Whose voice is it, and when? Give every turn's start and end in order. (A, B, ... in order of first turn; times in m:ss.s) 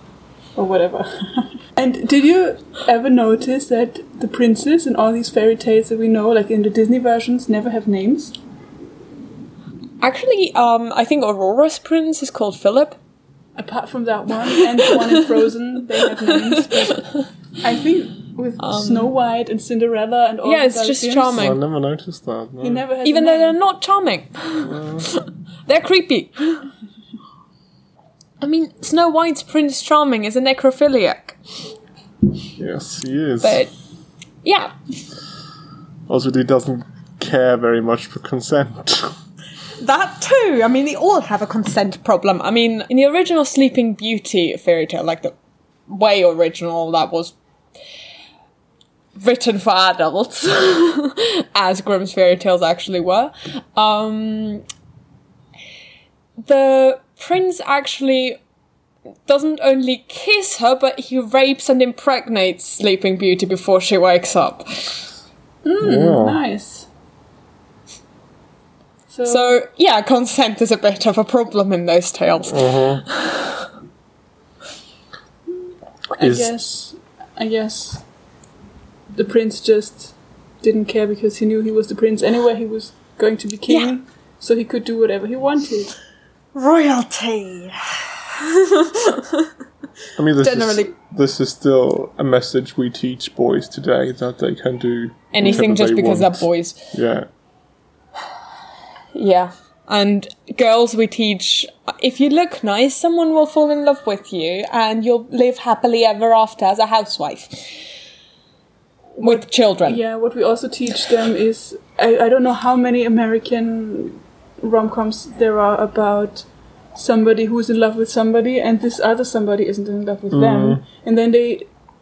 0:00.6-0:08.4 A
0:10.0-0:13.0 B
0:13.6-0:21.4 A
0:16.3-0:17.2 B
0:18.6-0:19.1 B
0:20.4-0:21.6 B
0:21.4-0:22.8 C
0:22.6-0:23.6 A
0:23.0-0:26.7 B
0:24.6-0:25.1 C
0:28.4-0:31.4 B
0:32.6-0:33.6 C
0:33.4-0:33.7 B
0:34.4-0:34.7 B
0:36.1-0:39.2 C
0:39.8-0:45.3 B
0:45.9-0:47.4 B
0:49.2-0:54.6 B
0:56.4-0:58.4 B
0:59.3-1:05.1 B
1:05.6-1:06.9 A
1:05.8-1:06.4 C
1:09.1-1:09.6 A
1:09.2-1:13.7 B
1:12.5-1:13.0 C
1:16.2-1:18.0 A
1:16.2-1:16.5 C
1:19.1-1:26.0 A
1:23.7-1:23.9 B
1:26.6-1:29.5 B
1:30.2-1:37.3 C
1:30.4-1:30.9 B
1:35.3-1:36.9 B
1:39.1-1:47.8 B
1:49.2-2:01.7 A
1:49.2-1:50.0 B
2:00.3-2:00.8 C